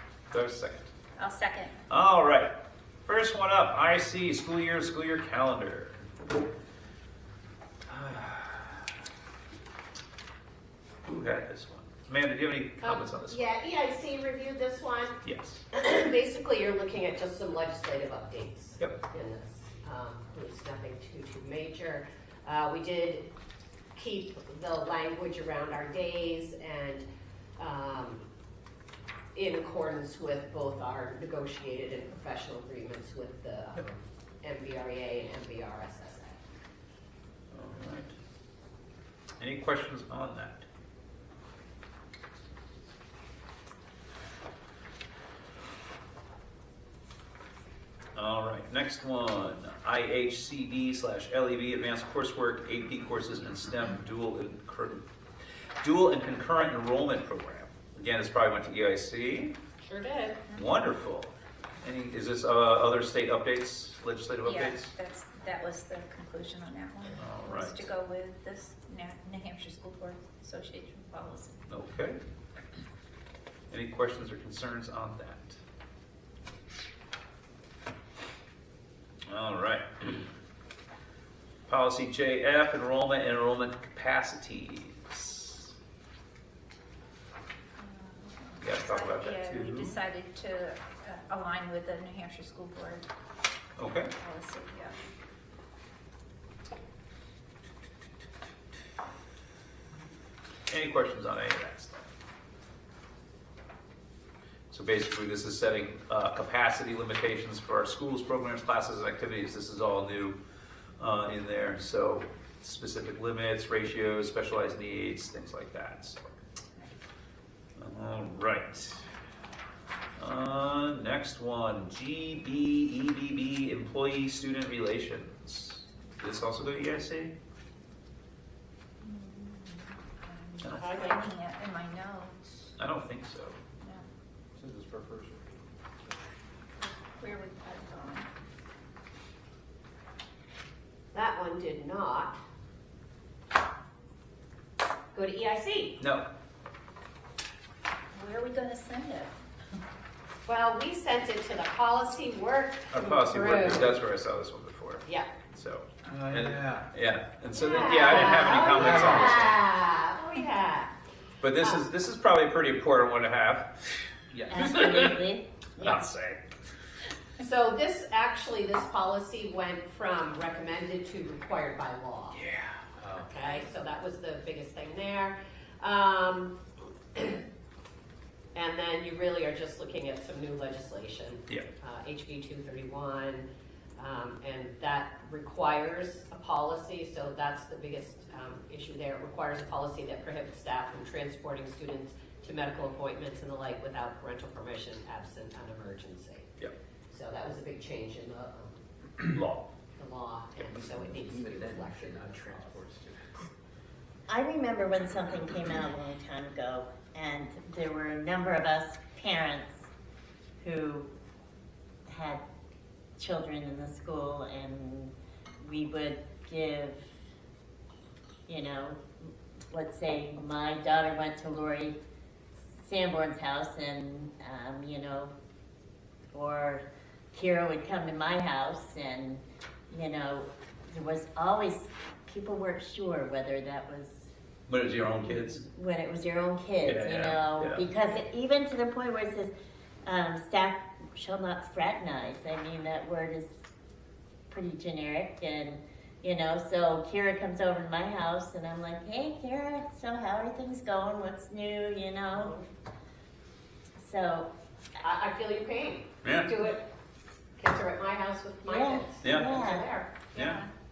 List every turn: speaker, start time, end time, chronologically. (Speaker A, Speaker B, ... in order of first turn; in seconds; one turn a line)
Speaker A: 0.3-0.9
Speaker B: 1.2-1.8
Speaker A: 1.9-2.5
Speaker A: 3.1-6.0
Speaker A: 7.9-8.8
Speaker A: 11.0-13.4
Speaker C: 12.8-23.3
Speaker A: 15.2-15.6
Speaker C: 23.9-27.1
Speaker C: 27.6-28.3
Speaker C: 29.3-36.4
Speaker A: 37.5-38.1
Speaker A: 39.4-40.6
Speaker A: 48.1-55.0
Speaker A: 55.8-59.5
Speaker C: 59.8-60.4
Speaker A: 60.5-64.9
Speaker B: 64.5-71.6
Speaker A: 67.2-67.8
Speaker A: 71.7-72.2
Speaker A: 73.7-75.6
Speaker A: 79.3-80.2
Speaker A: 81.7-85.7
Speaker B: 87.8-93.1
Speaker A: 88.6-90.0
Speaker A: 93.8-94.1
Speaker B: 94.2-95.0
Speaker A: 100.7-102.1
Speaker A: 104.7-110.4
Speaker A: 111.0-116.3
Speaker A: 117.8-119.0
Speaker A: 120.2-127.3
Speaker B: 129.0-132.7
Speaker A: 130.6-131.1
Speaker C: 130.8-131.2
Speaker A: 132.8-133.6
Speaker D: 134.6-135.6
Speaker B: 136.8-138.3
Speaker C: 141.1-142.4
Speaker C: 145.1-146.0
Speaker A: 146.0-146.3
Speaker B: 148.1-149.3
Speaker C: 150.5-154.0
Speaker A: 152.9-159.6
Speaker C: 155.1-155.3
Speaker D: 156.1-156.8
Speaker C: 157.6-160.9
Speaker D: 158.2-159.3
Speaker A: 161.4-165.2
Speaker E: 164.5-166.1
Speaker A: 165.8-166.4
Speaker C: 167.4-172.4
Speaker A: 172.3-173.0
Speaker C: 173.1-176.6
Speaker C: 177.1-177.4
Speaker C: 178.5-196.5
Speaker C: 197.1-198.8
Speaker A: 199.2-199.7
Speaker C: 200.0-202.8
Speaker D: 200.7-203.2
Speaker E: 204.3-209.9
Speaker E: 210.6-211.1
Speaker E: 212.1-212.4
Speaker E: 213.2-217.1
Speaker E: 218.5-221.9
Speaker E: 222.8-225.3
Speaker E: 226.3-226.8
Speaker E: 227.3-234.3
Speaker A: 234.7-235.7
Speaker E: 235.6-239.5
Speaker A: 236.8-237.8
Speaker E: 240.1-243.5
Speaker E: 244.5-252.6
Speaker E: 254.0-254.5
Speaker C: 255.0-256.9
Speaker A: 256.2-256.5
Speaker C: 257.6-260.3
Speaker E: 258.6-259.9
Speaker A: 259.2-259.5
Speaker A: 260.3-260.6
Speaker B: 260.4-260.7